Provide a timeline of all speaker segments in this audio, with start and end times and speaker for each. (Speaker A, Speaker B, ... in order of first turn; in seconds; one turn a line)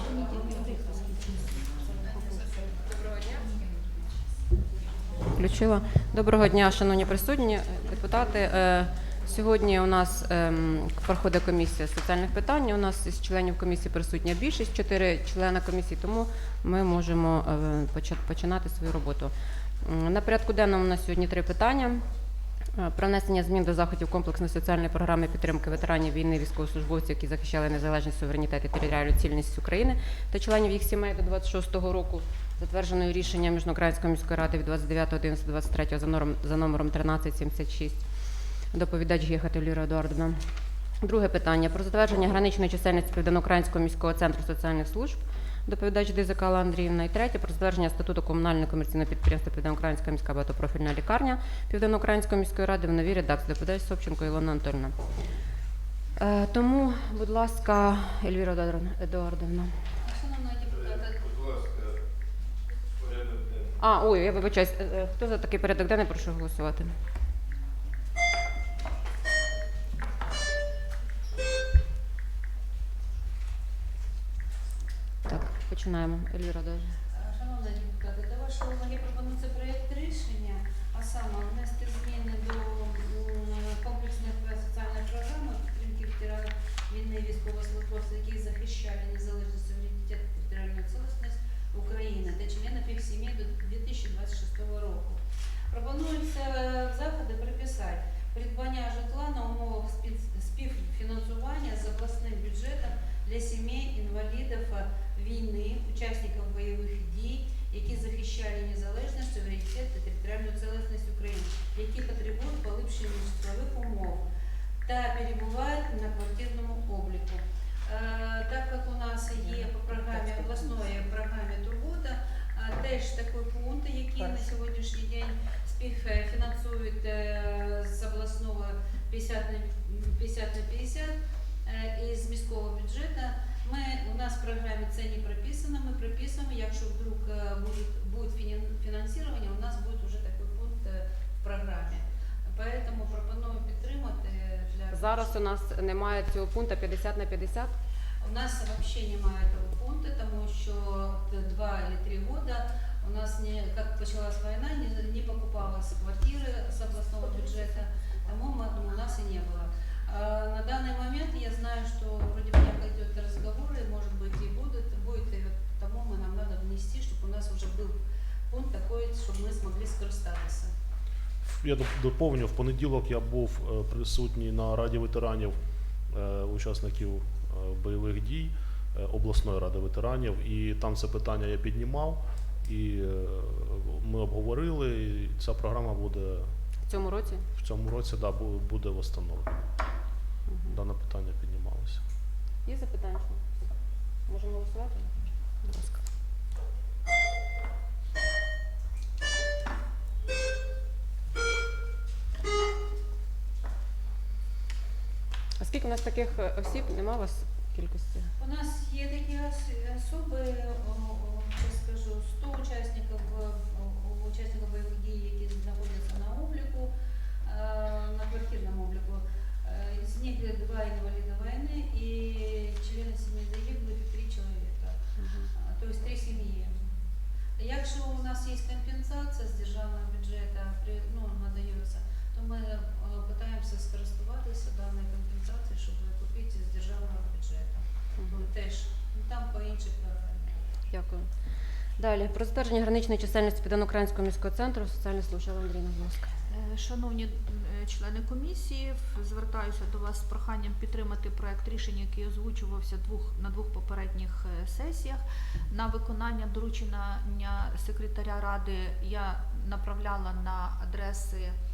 Speaker A: 5.2-22.0
Speaker A: 22.7-38.0
Speaker A: 38.7-40.4
Speaker A: 41.0-55.0
Speaker A: 56.2-59.7
Speaker B: 60.0-61.2
Speaker A: 63.8-66.9
Speaker A: 75.2-77.0
Speaker B: 77.1-114.2
Speaker B: 114.8-145.4
Speaker A: 144.9-147.8
Speaker B: 148.2-170.7
Speaker C: 171.4-189.6
Speaker A: 186.8-187.4
Speaker A: 190.5-190.8
Speaker C: 190.7-192.0
Speaker A: 192.6-193.4
Speaker A: 194.3-196.0
Speaker A: 205.6-208.3
Speaker B: 208.4-216.9
Speaker B: 217.4-225.0
Speaker A: 225.2-225.5
Speaker B: 225.6-226.8
Speaker B: 227.6-240.7
Speaker A: 238.2-238.5
Speaker A: 240.9-241.3
Speaker A: 241.9-246.3
Speaker D: 246.5-261.5